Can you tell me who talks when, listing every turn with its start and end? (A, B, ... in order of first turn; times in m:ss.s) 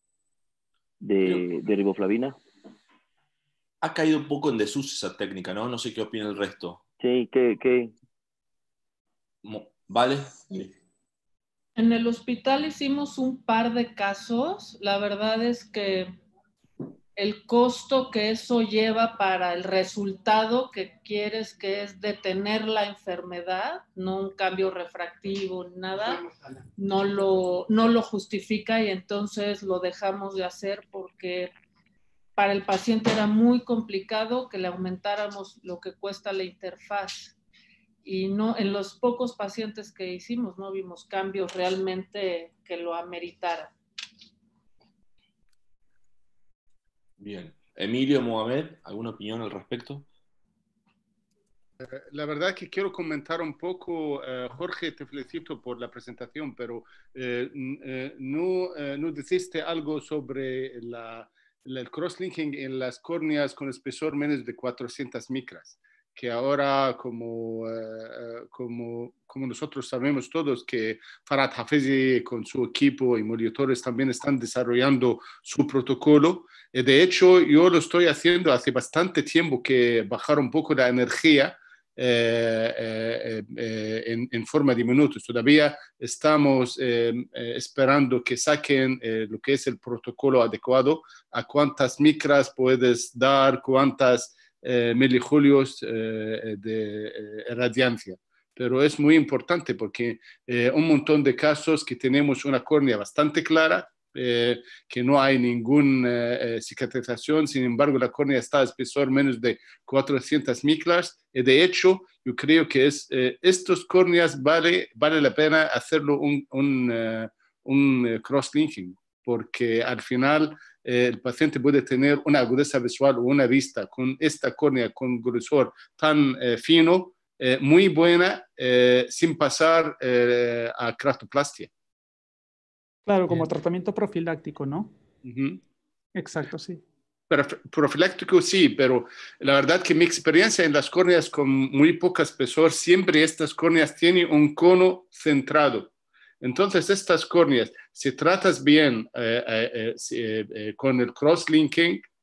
0:01.0-0:02.4 A
0:03.8-0:06.8 B
0:07.0-0:07.9 A
0:09.4-0:10.7 B
0:11.8-0:16.1 C
0:17.2-0:31.5 C
0:32.4-0:37.3 C
0:38.0-0:43.7 C
0:47.2-0:50.1 B
0:51.8-2:11.7 D
2:13.0-2:14.9 E
2:15.2-2:15.6 D
2:16.1-2:16.8 E
2:17.3-2:25.9 D
2:26.4-2:32.0 D